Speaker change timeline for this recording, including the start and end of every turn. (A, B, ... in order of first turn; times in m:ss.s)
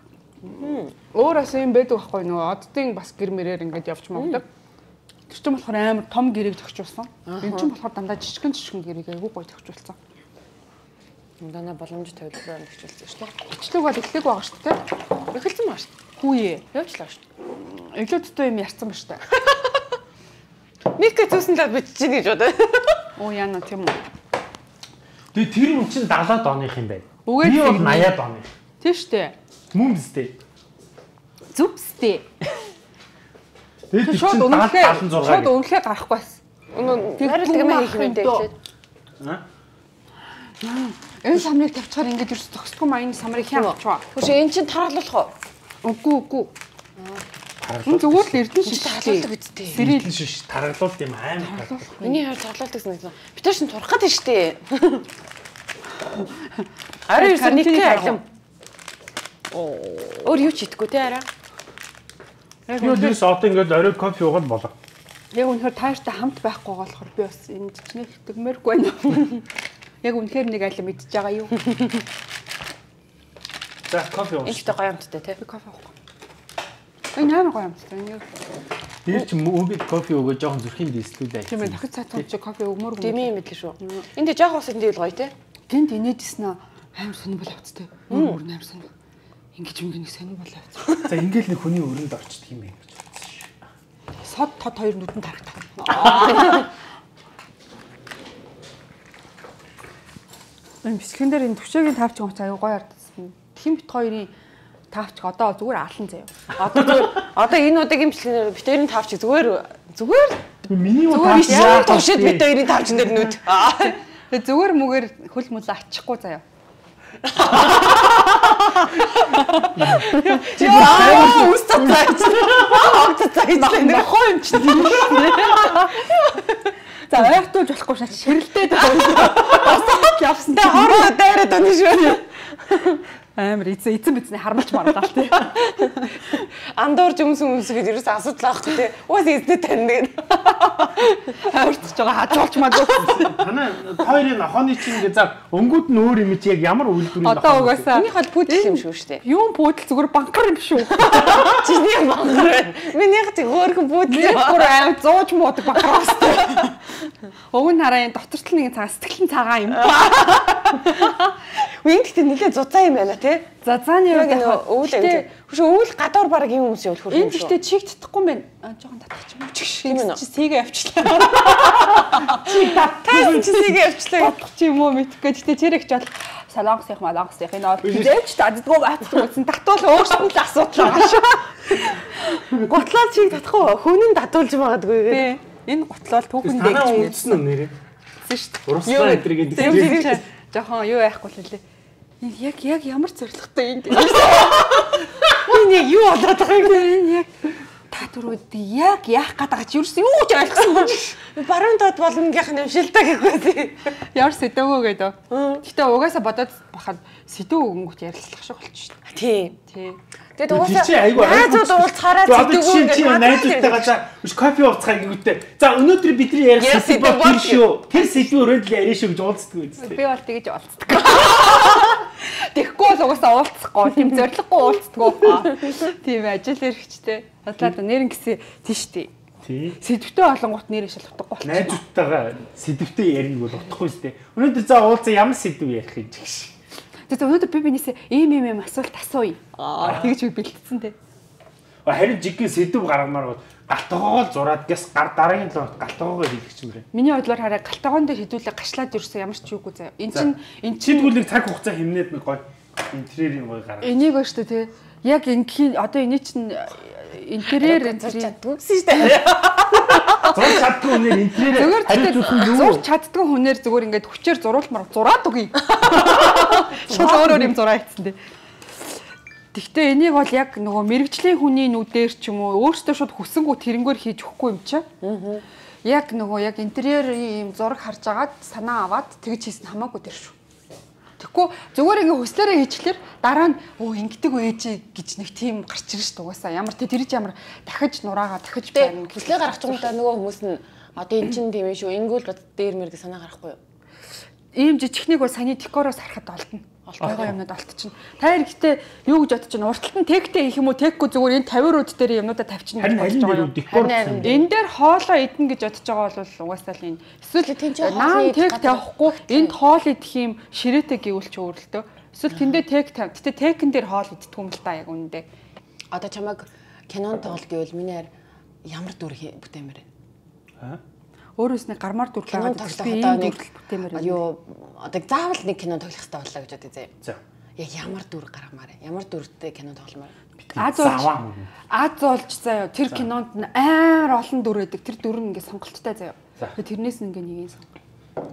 0:00.6-0:00.9 A
0:01.1-0:04.4 B
0:04.2-0:04.4 A
0:05.3-0:10.0 B
0:07.2-0:07.7 A
0:11.4-0:13.3 A
0:13.5-0:14.8 B
0:15.3-0:15.9 A
0:16.2-0:16.6 B
0:16.7-0:17.2 A
0:17.6-0:19.3 B
0:21.0-0:23.0 A
0:23.2-0:24.0 B
0:25.3-0:28.5 C
0:27.2-0:28.1 B
0:28.8-0:29.3 B
0:29.7-0:30.4 C
0:31.5-0:32.2 B
0:33.9-0:35.6 C
0:34.0-0:36.4 B
0:36.7-0:38.5 A
0:37.2-0:38.5 B
0:40.6-0:44.0 B
0:43.5-0:45.3 A
0:45.8-0:46.5 B
0:47.0-0:47.2 A
0:47.6-0:48.4 C
0:47.8-0:50.1 B
0:48.6-0:49.8 A
0:49.7-0:51.9 C
0:51.4-0:52.2 B
0:52.0-0:55.0 A
0:57.1-0:58.2 A
0:57.1-0:58.2 B
0:59.5-1:01.2 A
1:02.7-1:03.2 B
1:02.8-1:04.7 C
1:05.3-1:09.4 B
1:10.0-1:11.6 B
1:13.9-1:14.7 C
1:14.4-1:15.4 A
1:15.4-1:15.9 B
1:17.1-1:18.4 B
1:19.0-1:22.2 C
1:21.5-1:24.0 B
1:23.0-1:25.3 A
1:25.7-1:28.9 B
1:28.1-1:28.4 A
1:29.5-1:30.9 B
1:31.0-1:33.5 C
1:34.2-1:36.7 B
1:35.9-1:36.7 A
1:40.8-1:44.3 B
1:44.9-1:46.3 B
1:46.6-1:50.6 A
1:46.8-1:47.1 C
1:50.7-1:52.6 C
1:51.1-1:52.0 B
1:51.2-1:54.0 A
1:54.3-1:56.4 B
1:57.2-1:58.9 A
1:59.2-2:01.7 B
1:59.7-2:02.8 C
2:00.1-2:04.1 A
2:03.5-2:06.1 B
2:07.1-2:11.1 B
2:08.9-2:12.2 A
2:12.7-2:16.4 B
2:16.7-2:20.6 A
2:20.6-2:23.4 B
2:22.8-2:27.9 C
2:27.2-2:31.2 B
2:27.9-2:29.2 A
2:30.9-2:35.0 A
2:34.1-2:36.9 B
2:36.0-2:36.5 A
2:37.5-2:41.1 B
2:39.7-2:43.5 A
2:43.6-2:45.2 B
2:44.1-2:47.6 A
2:47.1-2:53.5 B
2:49.8-2:50.2 A
2:51.6-2:53.7 C
2:52.5-2:54.4 A
2:54.2-3:02.4 B
2:57.8-2:58.2 C
3:02.5-3:05.3 A
3:05.1-3:07.3 B
3:06.4-3:07.7 C
3:08.2-3:11.6 B
3:08.7-3:10.2 C
3:09.0-3:10.2 A
3:12.2-3:14.6 B
3:13.9-3:16.9 A
3:16.6-3:17.3 B
3:17.9-3:21.2 B
3:20.6-3:23.9 A
3:24.1-3:29.0 B
3:25.3-3:25.6 A
3:29.1-3:29.6 A
3:29.7-3:30.0 B
3:30.4-3:34.0 A
3:30.5-3:40.0 C
3:36.6-3:38.2 A
3:39.8-3:49.1 B
3:49.4-3:49.8 C
3:49.8-3:51.8 B
3:51.4-3:56.5 C
3:57.1-4:00.9 B
3:59.6-4:00.0 A
4:01.8-4:06.8 C
4:06.9-4:11.2 B
4:10.1-4:14.0 C
4:13.8-4:18.3 B
4:17.4-4:20.4 A
4:20.2-4:22.8 C
4:21.5-4:28.2 B
4:25.8-4:27.5 A
4:29.5-4:34.9 B
4:35.0-4:35.4 A
4:35.8-4:40.3 B
4:41.2-4:49.9 B
4:48.7-4:53.6 A
4:54.5-5:03.5 B
4:56.9-4:57.3 A
4:57.0-4:57.3 C
5:02.8-5:04.3 C
5:03.7-5:04.5 A
5:04.2-5:15.2 B
5:07.4-5:09.5 A
5:15.9-5:18.1 A
5:18.6-5:19.8 A
5:21.4-5:24.2 B
5:22.3-5:23.4 A
5:23.9-5:26.9 A
5:27.6-5:30.1 A
5:30.4-5:31.1 B
5:30.5-5:31.5 C
5:31.7-5:37.7 B